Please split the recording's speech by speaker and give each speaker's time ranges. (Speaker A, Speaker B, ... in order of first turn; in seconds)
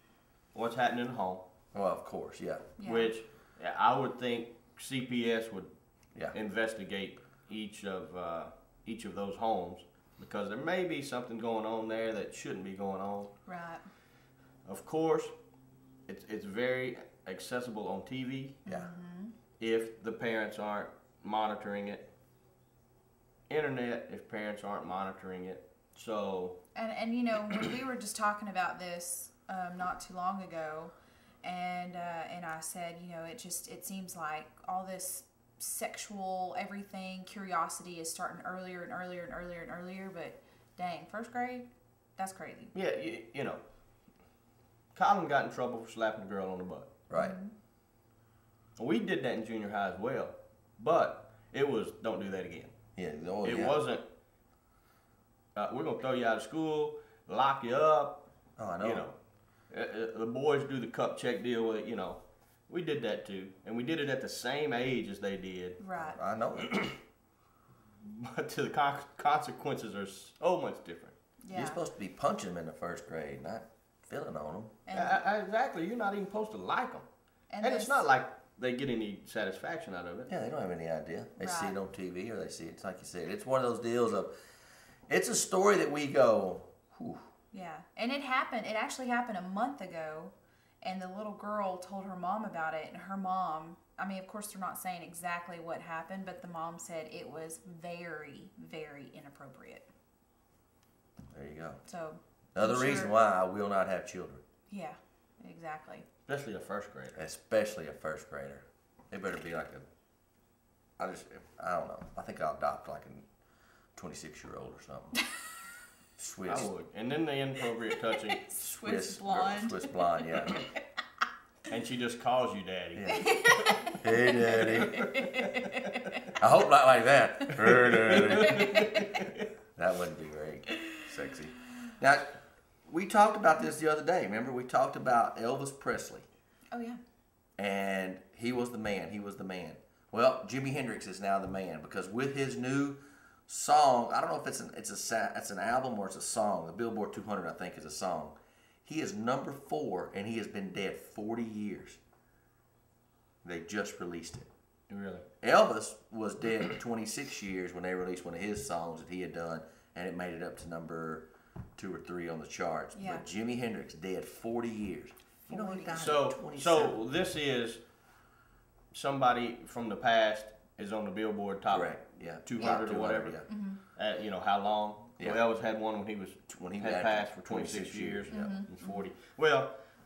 Speaker A: 0.5-1.4, 2.8-5.7, 6.3-13.3, 14.7-15.3, 16.1-18.6, 19.6-22.1, 23.5-26.6, 42.7-43.6, 44.9-47.0, 48.8-52.7, 53.4-54.0, 55.5-58.2, 58.8-59.1, 59.7-65.8, 66.5-67.0, 68.0-71.1, 74.9-77.0, 77.6-80.3, 106.3-107.2, 116.5-118.5, 121.7-123.9, 124.5-125.8, 127.7-129.4, 154.9-155.2, 165.9-167.8, 168.9-173.4, 173.9-179.7
Speaker B: 1.7-2.7, 18.6-18.9, 47.1-47.4, 53.0-53.8, 58.6-59.0, 66.0-66.7, 71.5-74.8, 80.3-84.3, 85.1-87.2, 101.3-101.8, 102.5-104.4, 107.1-109.8, 111.0-113.3, 113.9-115.2, 116.2-116.7, 118.6-120.5, 122.9-123.3, 124.0-125.0, 126.4-128.8, 129.7-132.3, 132.8-136.2, 137.6-152.0, 153.4-154.5, 155.4-166.9, 171.7-173.4, 176.5-178.6
Speaker C: 2.8-3.1, 13.4-13.8, 18.6-19.3, 26.7-42.7, 47.1-47.5, 65.8-66.2, 71.4-71.8, 74.8-75.2, 77.5-78.1, 81.4-81.8, 87.5-99.9, 101.8-103.1, 104.7-106.1, 118.3-120.8, 123.1-126.3, 127.4-129.1, 130.7-131.0, 136.7-137.0, 162.9-163.2, 165.4-166.1, 172.6-172.9, 173.4-173.8, 178.3-179.1